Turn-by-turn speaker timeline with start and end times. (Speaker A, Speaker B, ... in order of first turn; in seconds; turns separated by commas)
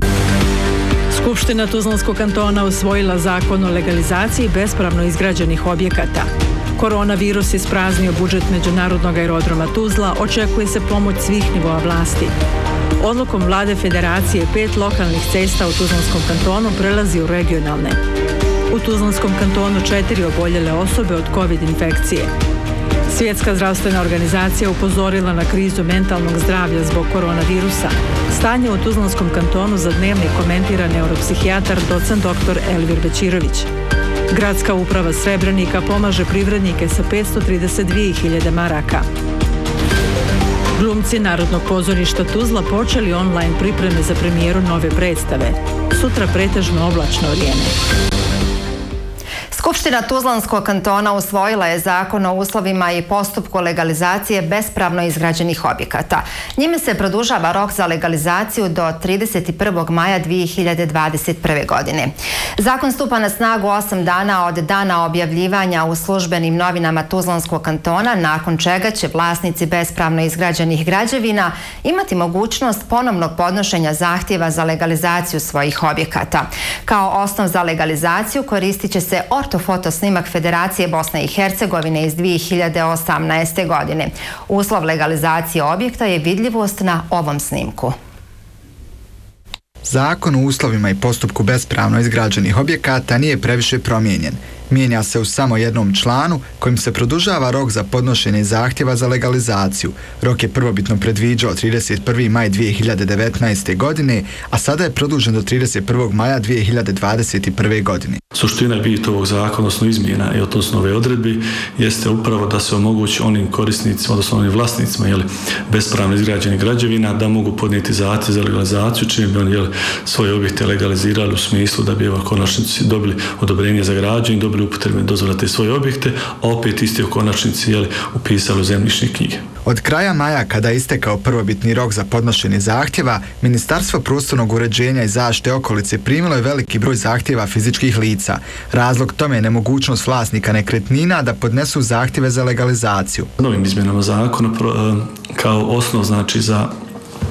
Speaker A: 1.1-12.3, Speaker A: 13.0-18.0, Speaker A: 18.7-22.3, Speaker A: 23.1-33.7, Speaker A: 34.3-39.0, Speaker A: 40.7-47.7, Speaker B: 49.5-88.0, Speaker C: 89.8-108.2, Speaker D: 108.3-129.4, Speaker C: 129.6-143.3, Speaker D: 143.4-146.7